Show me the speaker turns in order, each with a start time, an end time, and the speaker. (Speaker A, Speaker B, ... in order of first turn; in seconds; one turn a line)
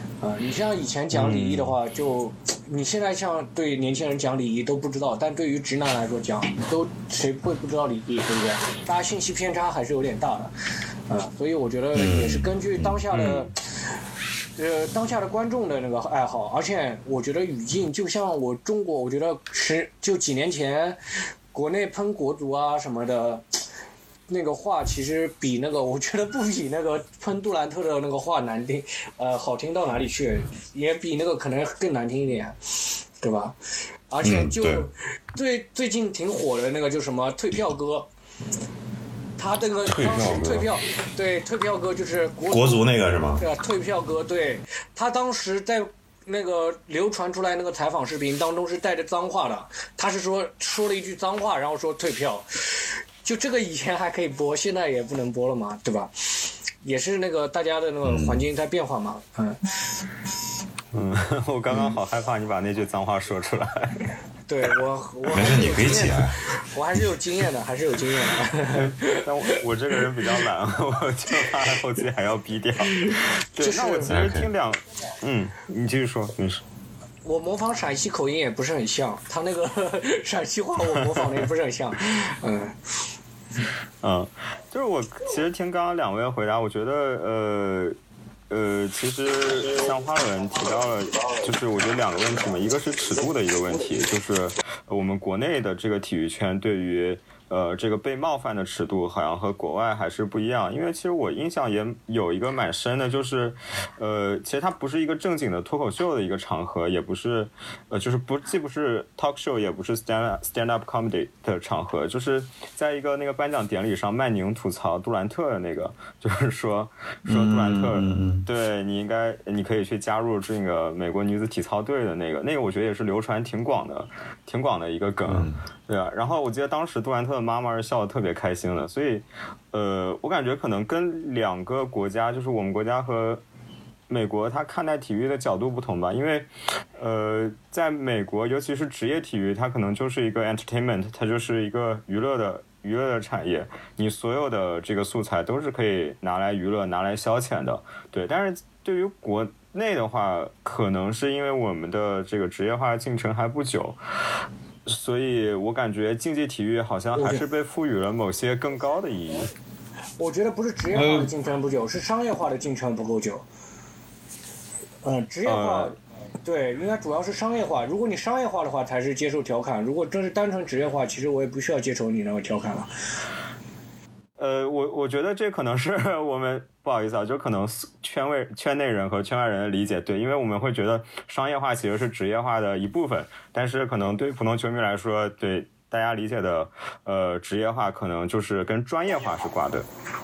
Speaker A: 0.2-10.5
Speaker B: 1.1-1.7
Speaker A: 11.1-13.5
Speaker C: 11.9-13.0
Speaker B: 13.1-13.5
Speaker A: 14.6-21.0
Speaker A: 21.5-23.6
Speaker A: 24.3-32.6
Speaker A: 33.2-33.6
Speaker A: 34.1-38.1
Speaker C: 34.2-34.9
Speaker A: 39.4-42.8
Speaker C: 39.9-40.8
Speaker C: 42.5-43.4
Speaker A: 43.4-56.1
Speaker A: 56.8-59.8
Speaker C: 58.0-58.4
Speaker B: 60.9-64.1
Speaker A: 64.5-69.2
Speaker C: 65.3-66.5
Speaker B: 68.7-76.6
Speaker A: 72.9-74.2
Speaker C: 74.1-74.5
Speaker A: 77.2-82.8
Speaker B: 84.0-88.0
Speaker B: 88.5-133.4
Speaker C: 117.3-118.5
Speaker C: 125.3-125.6
Speaker B: 134.1-154.0
Speaker B: 154.9-159.5
Speaker A: 157.2-157.4
Speaker A: 160.2-163.4
Speaker C: 160.9-161.3
Speaker A: 165.0-172.9
Speaker B: 165.5-165.9
Speaker B: 174.4-189.9